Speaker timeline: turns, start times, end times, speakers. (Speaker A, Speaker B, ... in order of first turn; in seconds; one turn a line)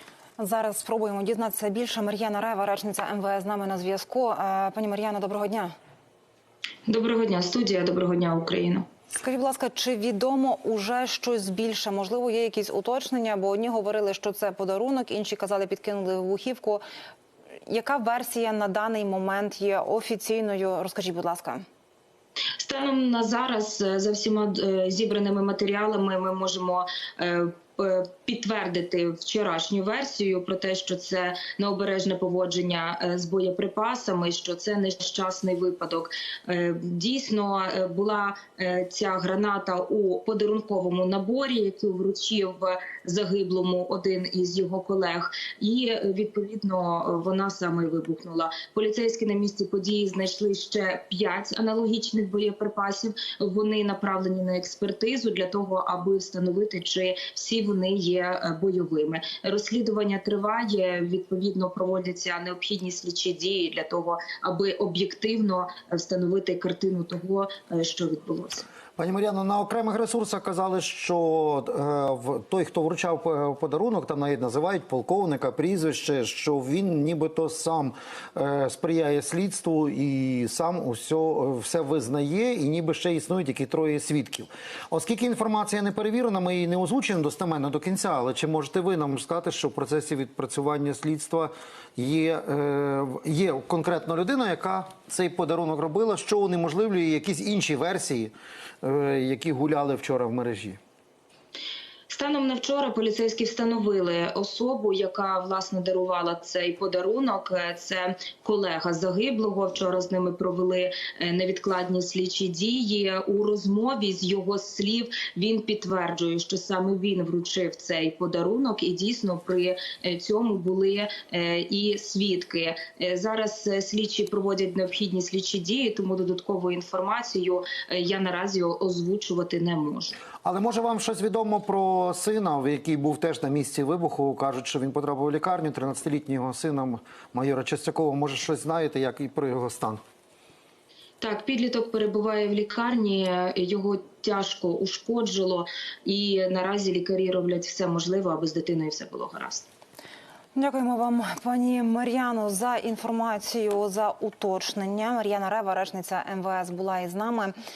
Speaker A: 0.4-5.7
Speaker B: 6.9-8.8
Speaker A: 9.2-16.8
Speaker A: 17.7-21.6
Speaker B: 22.6-68.7
Speaker C: 69.0-100.8
Speaker B: 102.1-130.2
Speaker C: 130.4-140.0
Speaker B: 141.2-149.7
Speaker A: 150.5-157.5